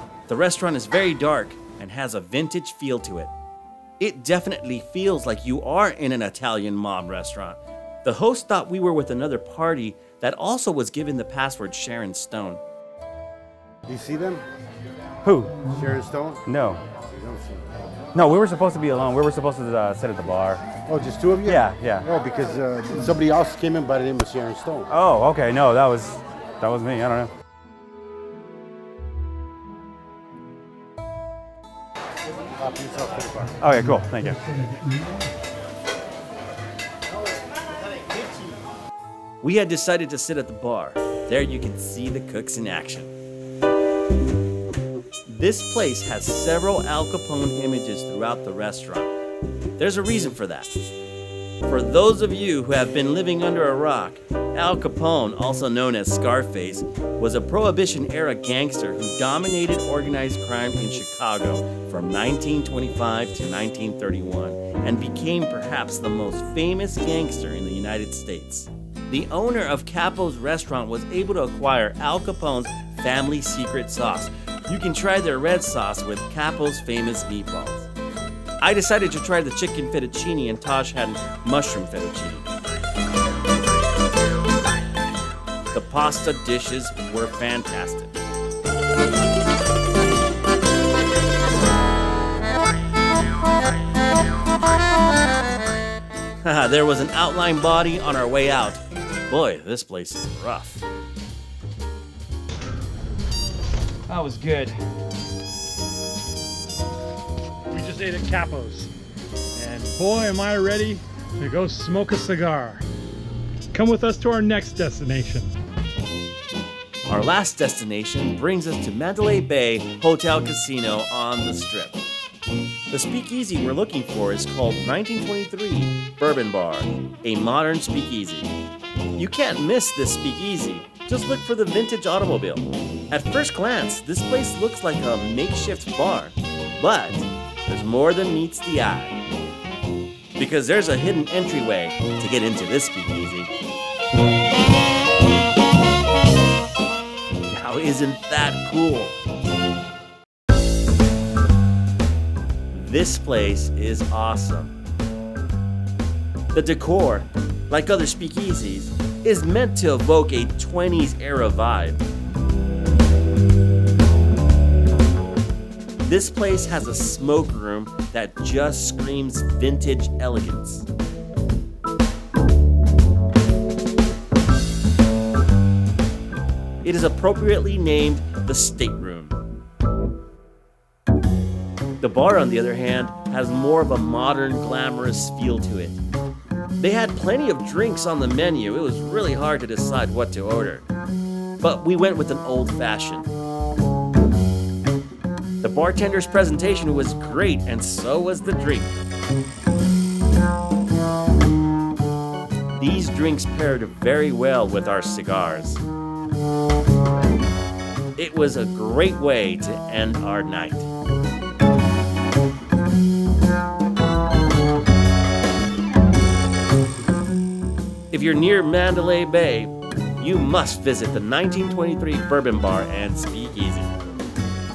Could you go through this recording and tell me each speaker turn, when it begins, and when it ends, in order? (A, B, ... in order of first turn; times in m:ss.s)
0:00.3-0:03.3 A
0:04.0-0:12.6 A
0:13.9-0:14.4 B
0:15.2-0:15.6 C
0:15.7-0:16.4 B
0:16.4-0:16.8 C
0:17.2-0:17.6 B
0:18.1-0:20.6 C
0:20.9-0:24.8 B
0:21.4-0:22.1 C
0:24.9-0:27.3 C
0:32.6-0:33.5 B
0:33.6-0:34.4 C
0:39.4-0:43.1 A
0:45.3-0:49.1 A
0:49.8-0:50.7 A
0:51.6-1:17.9 A
1:18.6-1:22.5 A
1:25.7-1:28.2 A
1:36.4-1:40.8 A
1:44.1-1:44.8 D
1:47.7-1:48.9 D
1:49.6-1:52.8 D
1:53.7-1:55.5 D
1:57.1-2:02.0 A
2:02.9-2:08.5 A
2:09.2-2:19.2 A
2:20.4-2:23.5 A
2:27.5-2:29.1 A
2:32.7-2:34.7 A
2:36.5-2:42.0 A
2:46.0-2:50.8 A
2:56.8-2:59.4 A
3:02.0-3:06.0 A
3:06.8-3:10.9 A
3:11.6-3:13.3 A
3:15.6-3:18.9 A
3:22.8-3:25.8 A
3:28.2-3:30.9 A
3:38.1-3:43.9 A